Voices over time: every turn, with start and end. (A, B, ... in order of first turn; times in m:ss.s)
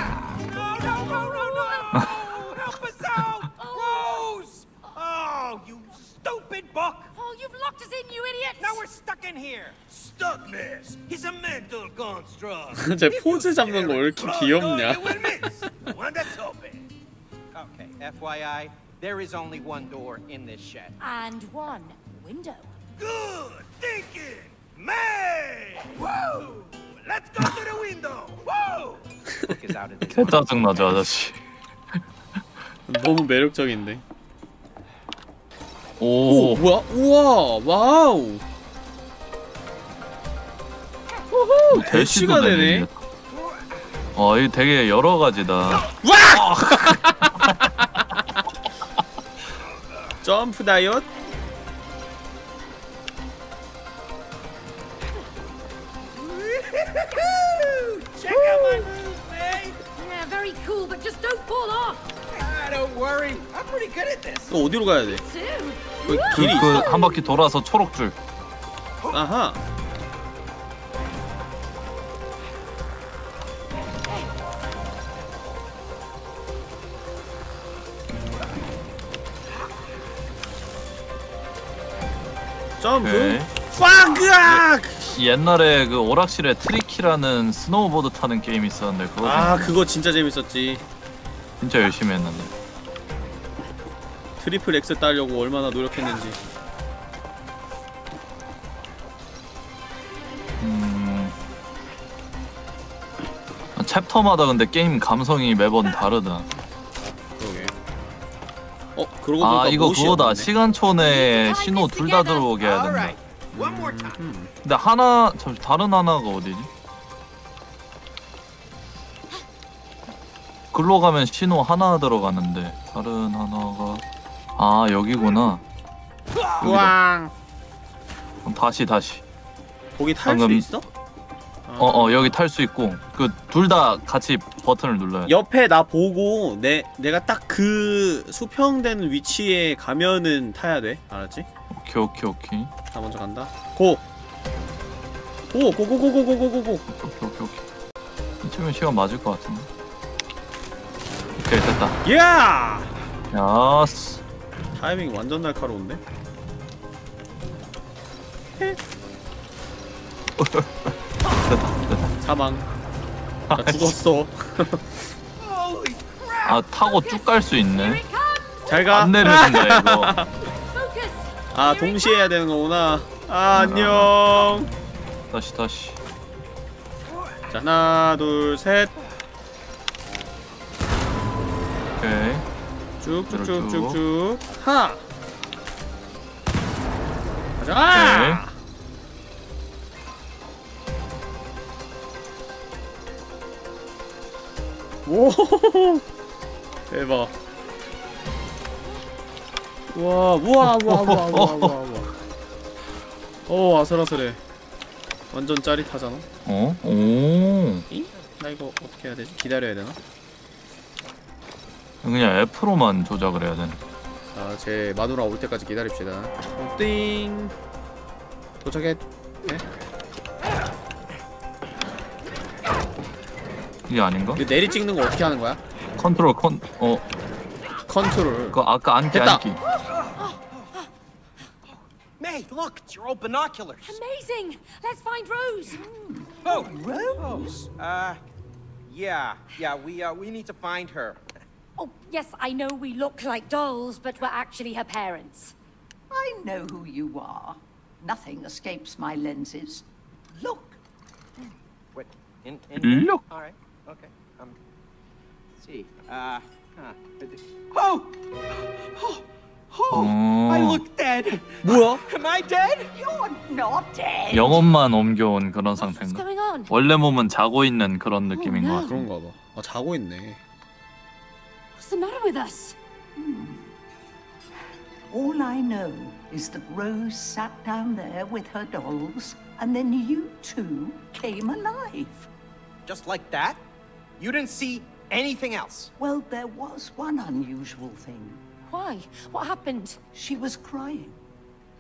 0:00.4-0:07.1 A
0:03.6-0:04.3 B
0:07.1-0:08.8 B
0:08.6-0:09.9 A
0:09.9-0:16.9 C
0:12.7-0:15.3 D
0:15.0-0:15.7 A
0:17.5-0:21.0 A
0:21.0-0:22.7 B
0:23.0-0:29.0 C
0:29.4-0:31.0 A
0:30.1-0:31.4 E
0:32.9-0:34.0 D
0:36.0-0:36.6 E
0:36.3-0:38.4 D
0:41.3-0:42.9 D
0:41.7-0:43.0 E
0:44.2-0:47.1 E
0:46.0-0:48.0 D
0:50.2-0:51.1 D
0:56.2-0:59.7 A
0:58.5-0:59.2 C
0:59.9-1:02.1 B
1:02.3-1:04.5 A
1:04.5-1:05.2 D
1:05.0-1:07.2 B
1:06.0-1:06.9 D
1:06.3-1:08.2 E
1:09.1-1:09.6 D
1:22.8-1:25.0 D
1:23.0-1:23.5 E
1:25.1-1:29.7 E
1:29.2-1:30.8 D
1:31.6-1:32.5 E
1:34.4-1:36.4 D
1:40.6-1:41.4 E
1:43.8-1:46.5 E
1:47.4-1:47.7 D
1:49.0-1:50.5 D
1:49.4-1:53.2 E
1:50.9-1:52.5 B
1:52.6-1:54.2 A
1:53.5-1:54.5 D
1:54.6-1:56.7 E
2:00.7-2:04.0 E
2:04.6-2:05.6 E
2:06.6-2:06.9 E
2:06.6-2:07.3 D
2:08.4-2:09.2 E
2:10.0-2:10.9 D
2:10.2-2:10.7 E
2:11.7-2:12.4 D
2:11.8-2:15.4 E
2:15.3-2:21.5 D
2:21.7-2:22.7 E
2:22.9-2:24.0 D
2:25.5-2:26.8 D
2:26.9-2:27.6 E
2:28.4-2:29.7 E
2:31.4-2:32.0 E
2:32.0-2:32.9 D
2:33.3-2:34.2 E
2:34.7-2:36.0 D
2:40.4-2:42.1 E
2:42.2-2:42.7 D
2:43.5-2:44.0 E
2:43.6-2:45.1 D
2:45.4-2:46.2 C
2:46.4-2:48.0 E
2:47.0-2:48.9 B
2:48.7-2:50.3 D
2:48.9-2:50.2 E
2:50.7-2:52.3 B
2:51.5-2:54.7 D
2:53.5-2:54.3 E
2:55.3-2:56.0 E
2:57.5-2:58.9 D
3:02.0-3:02.4 E
3:03.0-3:05.0 D
3:03.3-3:04.0 E
3:07.6-3:08.5 D
3:07.9-3:08.4 E
3:15.0-3:16.0 D
3:16.9-3:17.3 D
3:19.9-3:22.1 D
3:20.6-3:21.8 E
3:23.5-3:24.4 D
3:25.3-3:26.3 D
3:26.4-3:27.9 E
3:27.9-3:30.0 D
3:32.0-3:33.8 E
3:34.3-3:37.5 D
3:38.6-3:39.6 D
3:43.9-3:44.4 E
3:44.4-3:45.6 D
3:46.0-3:47.1 E
3:47.9-3:48.6 D
3:48.5-3:49.6 E
3:49.1-3:49.4 D
3:52.2-3:54.0 A
3:53.8-3:55.8 B
3:55.7-3:57.6 F
3:56.4-3:58.2 A
3:58.9-4:01.2 A
4:01.8-4:05.5 B
4:06.1-4:09.9 F
4:10.4-4:10.7 A
4:12.0-4:14.6 A
4:12.8-4:13.2 E
4:15.6-4:18.1 A
4:19.8-4:20.7 A
4:19.9-4:20.8 E
4:20.6-4:21.2 C
4:21.3-4:22.8 A
4:21.6-4:22.0 D
4:22.9-4:24.6 F
4:24.3-4:28.9 E
4:25.8-4:26.7 B
4:28.4-4:29.0 B
4:28.8-4:30.4 D
4:31.8-4:32.8 B
4:33.2-4:33.6 F
4:35.1-4:42.3 F
4:42.9-4:43.6 A
4:44.2-4:45.9 A
4:46.0-4:48.4 F
4:48.7-4:50.0 B
4:50.1-4:51.2 F